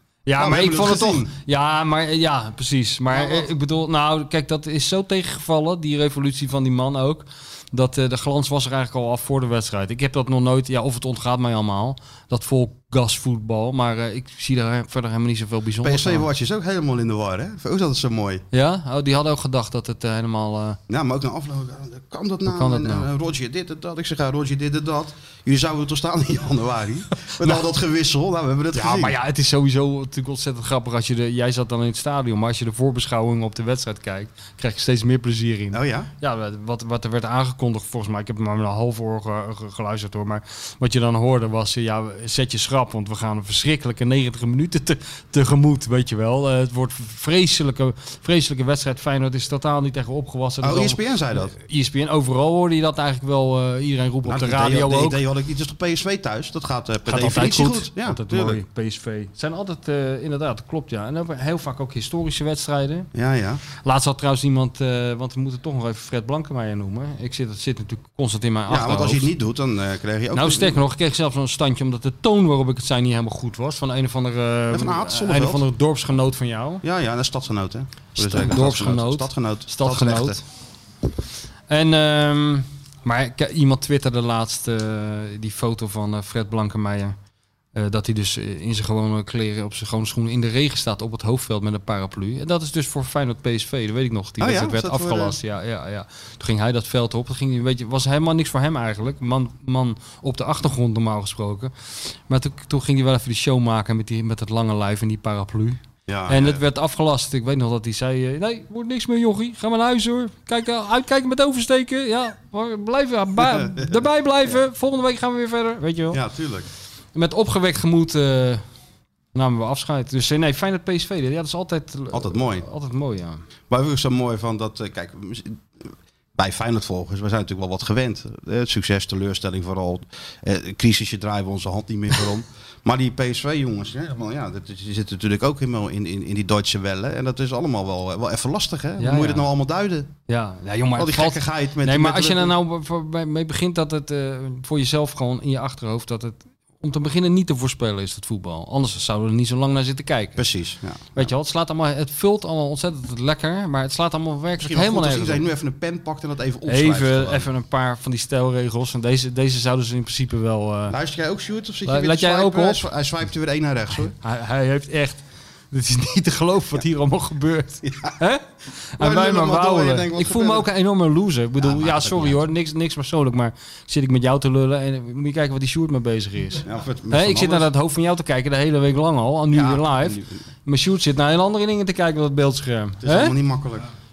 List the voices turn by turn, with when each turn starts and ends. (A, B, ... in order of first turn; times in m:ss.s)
0:00.3-0:16.3 A
0:00.4-0:01.3 B
0:03.1-0:03.5 B
0:15.8-0:18.4 B
0:18.5-0:20.8 A
0:20.9-0:29.2 B
0:22.5-0:23.1 A
0:28.7-0:55.2 A
0:35.7-0:36.1 B
0:50.6-0:51.5 B
0:54.3-0:58.6 B
0:57.1-1:03.1 A
1:03.1-1:03.6 B
1:03.8-1:09.3 A
1:08.7-1:10.8 B
1:10.3-1:16.8 A
1:14.7-1:15.6 B
1:16.8-1:20.4 B
1:18.2-1:20.4 A
1:21.7-1:27.2 A
1:27.8-1:56.2 A
1:34.4-1:35.4 B
1:46.1-1:46.6 B
1:53.4-1:54.6 B
1:56.1-1:56.7 B
1:57.1-1:58.6 A
1:59.3-2:03.4 A
2:02.1-2:02.7 B
2:03.7-2:05.6 B
2:06.4-2:20.1 B
2:19.0-2:19.4 A
2:20.3-2:30.4 A
2:21.0-2:22.6 B
2:30.4-2:31.3 B
2:31.2-2:35.4 A
2:34.6-2:37.5 B
2:36.7-2:41.0 A
2:40.9-2:44.2 B
2:41.9-2:42.9 A
2:44.2-3:03.4 A
2:47.9-2:48.2 B
2:49.0-2:50.7 B
2:51.6-2:52.5 B
2:56.6-2:57.7 B
2:59.5-3:00.4 B
3:03.0-3:03.9 B